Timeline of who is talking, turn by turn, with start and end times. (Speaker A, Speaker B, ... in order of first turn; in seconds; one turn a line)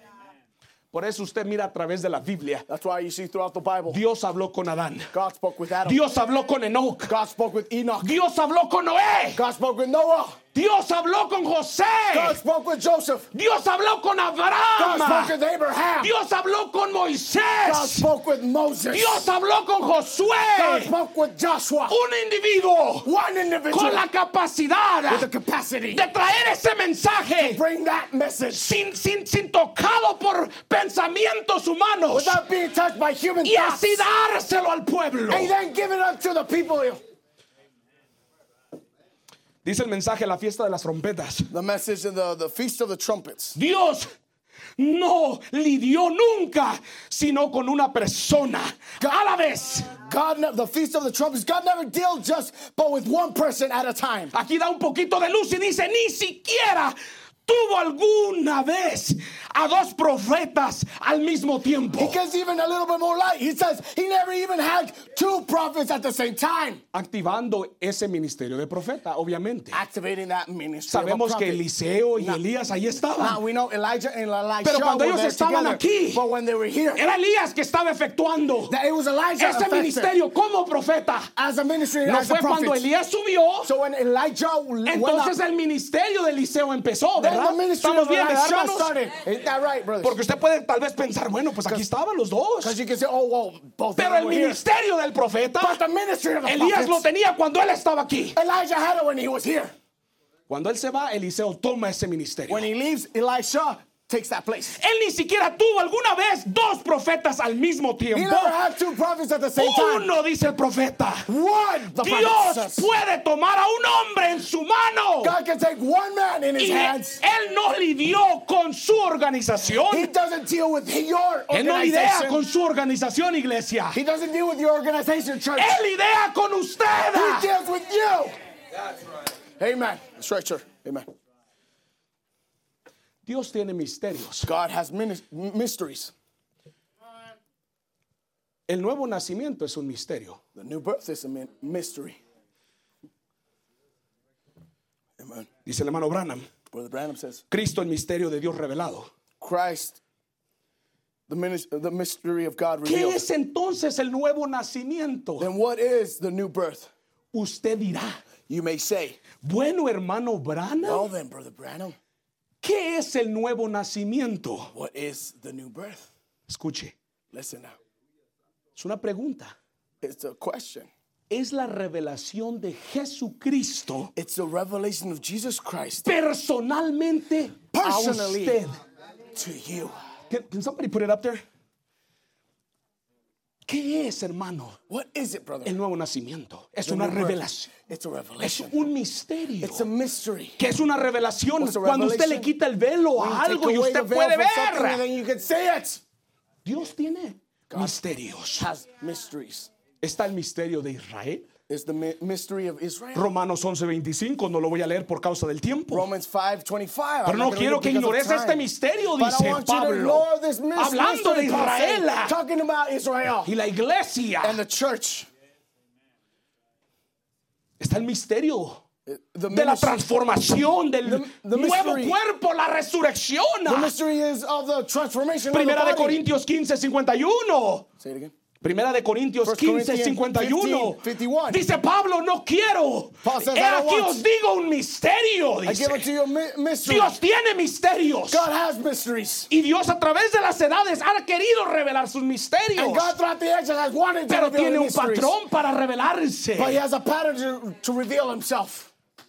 Speaker A: 0.9-2.6
Speaker B: 2.7-4.0
Speaker A: 3.9-5.1
Speaker B: 5.1-6.0
Speaker A: 5.8-7.1
Speaker B: 7.0-8.2
Speaker A: 8.0-9.4
Speaker B: 9.3-10.4
Speaker A: 10.5-12.4
Speaker B: 12.1-13.3
Speaker A: 13.3-15.3
Speaker B: 14.8-16.1
Speaker A: 16.0-18.1
Speaker B: 17.6-19.3
Speaker A: 18.9-20.9
Speaker B: 20.5-22.0
Speaker A: 21.9-23.1
Speaker B: 23.0-24.1
Speaker A: 23.7-25.3
Speaker B: 25.1-26.1
Speaker A: 25.9-27.6
Speaker B: 27.4-28.8
Speaker A: 28.5-32.4
Speaker B: 32.1-34.1
Speaker A: 33.4-35.5
Speaker B: 35.3-37.0
Speaker A: 39.6-41.5
Speaker B: 41.5-43.6
Speaker A: 43.5-44.1
Speaker A: 44.8-49.9
Speaker B: 49.9-54.3
Speaker A: 54.3-62.2
Speaker B: 61.9-66.8
Speaker A: 66.9-69.8
Speaker B: 69.7-71.6
Speaker A: 70.9-73.4
Speaker B: 72.2-72.4
Speaker B: 73.2-77.1
Speaker A: 74.6-76.2
Speaker A: 77.0-78.7
Speaker B: 78.7-80.1
Speaker A: 79.4-81.3
Speaker B: 81.3-82.8
Speaker A: 82.0-83.7
Speaker B: 83.6-85.3
Speaker A: 84.8-88.9
Speaker B: 87.2-90.2
Speaker A: 90.0-92.8
Speaker B: 92.6-94.6
Speaker A: 94.0-95.8
Speaker B: 95.6-97.1
Speaker A: 96.5-98.3
Speaker B: 98.3-99.7
Speaker A: 100.5-102.6
Speaker B: 102.5-104.8
Speaker A: 104.8-108.5
Speaker B: 108.1-110.1
Speaker A: 109.6-111.3
Speaker B: 111.3-112.9
Speaker A: 111.9-115.3
Speaker B: 115.2-117.2
Speaker A: 116.6-120.1
Speaker B: 119.9-122.4
Speaker A: 121.5-124.0
Speaker B: 123.9-125.8
Speaker A: 125.5-127.5
Speaker B: 127.1-128.3
Speaker B: 129.6-131.1
Speaker A: 133.2-134.5
Speaker B: 134.4-136.1
Speaker A: 138.7-140.4
Speaker B: 140.6-142.2
Speaker B: 145.2-145.5
Speaker A: 145.7-146.5
Speaker B: 146.7-147.4
Speaker A: 147.5-149.1
Speaker B: 149.4-150.0
Speaker B: 151.3-153.2
Speaker A: 152.8-155.5
Speaker B: 155.4-156.9
Speaker A: 157.3-158.3
Speaker B: 158.4-159.2
Speaker A: 159.3-161.1
Speaker B: 160.8-162.0
Speaker A: 162.6-164.7
Speaker B: 164.7-166.1
Speaker A: 166.5-166.9
Speaker B: 167.3-167.8
Speaker A: 168.8-169.5
Speaker B: 170.0-170.9
Speaker A: 171.3-174.1
Speaker B: 174.2-176.1
Speaker A: 176.0-178.8
Speaker B: 177.7-178.6
Speaker B: 179.3-179.9
Speaker A: 180.3-181.4
Speaker A: 183.7-184.8
Speaker B: 184.9-185.8
Speaker A: 185.6-187.7
Speaker B: 186.8-188.8
Speaker A: 188.4-189.8
Speaker B: 189.6-190.6
Speaker A: 190.6-195.0
Speaker B: 191.6-192.5
Speaker B: 193.2-196.0
Speaker A: 196.6-198.7
Speaker B: 197.7-198.0
Speaker B: 198.6-199.7
Speaker A: 200.0-201.5
Speaker B: 201.7-203.3
Speaker A: 203.1-206.1
Speaker B: 205.9-213.5
Speaker A: 207.2-212.3
Speaker A: 213.4-214.6
Speaker B: 214.4-215.3
Speaker A: 217.8-218.8
Speaker B: 219.1-220.0
Speaker A: 219.5-223.9
Speaker B: 221.0-222.2
Speaker B: 223.7-226.2
Speaker A: 225.5-227.9
Speaker B: 228.0-228.3
Speaker A: 228.6-236.0
Speaker B: 229.4-231.6
Speaker B: 233.2-234.2
Speaker B: 235.6-237.2
Speaker A: 236.8-238.4
Speaker B: 238.3-239.5
Speaker A: 239.5-243.1
Speaker B: 242.8-245.3
Speaker A: 244.3-246.8
Speaker B: 246.6-248.9